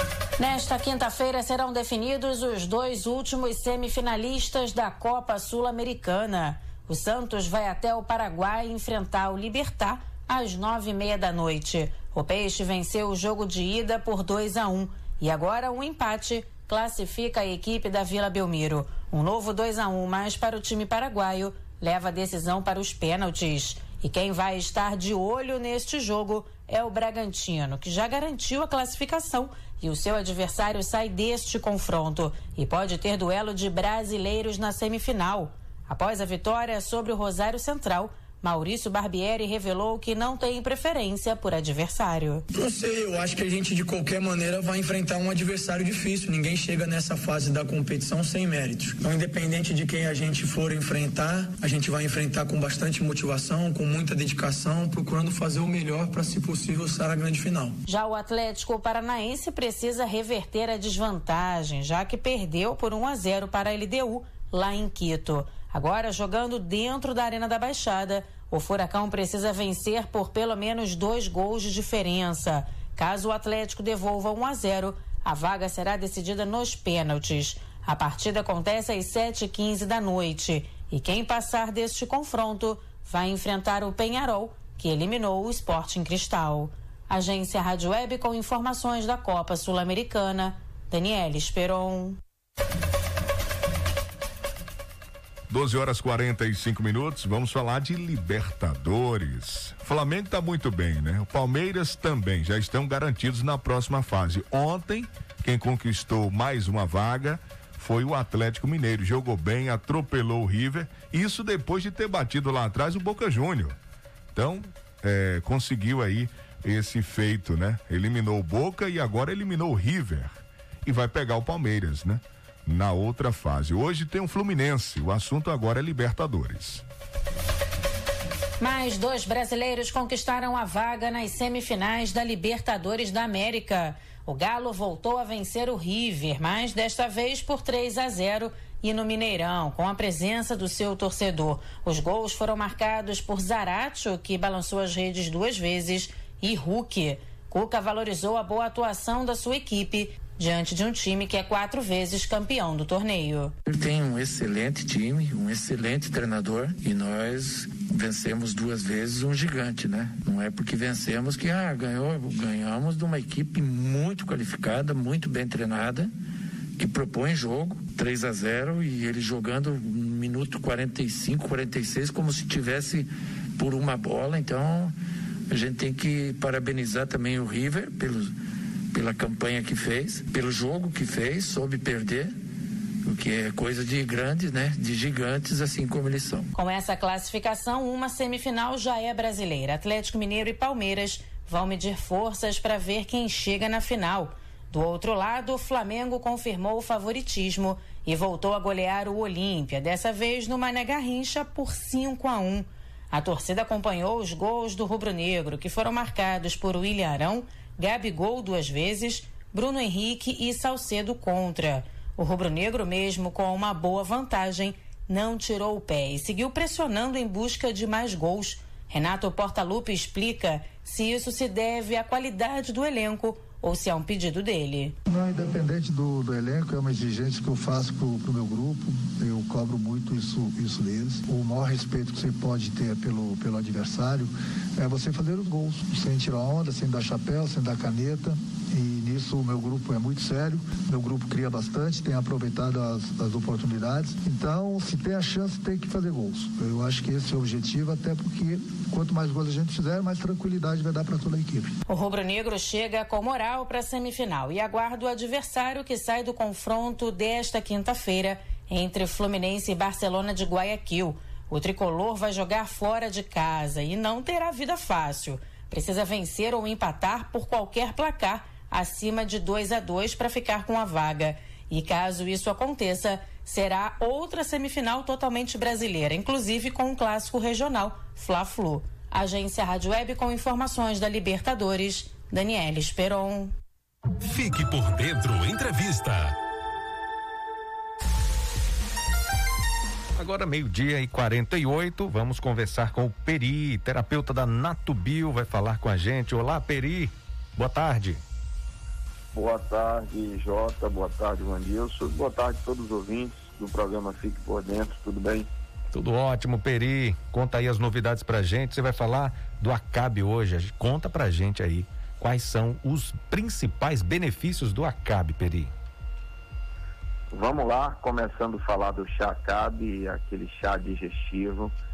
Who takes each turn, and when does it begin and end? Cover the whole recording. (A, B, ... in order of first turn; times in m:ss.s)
0:00.4-0:42.4 A
0:42.5-0:57.8 B
0:57.9-1:32.2 A
1:35.5-1:53.8 C
1:54.3-2:06.8 C
2:08.6-2:33.5 A
2:33.7-2:46.1 D
2:46.8-2:55.0 D
2:55.5-2:58.3 D
2:58.9-3:02.4 D
3:03.0-3:06.5 D
3:06.6-3:45.0 A
3:45.1-4:11.8 E
4:11.9-4:43.5 A
4:50.2-4:58.2 F
4:59.3-5:05.5 G
5:05.9-5:15.7 F
5:17.3-5:21.7 G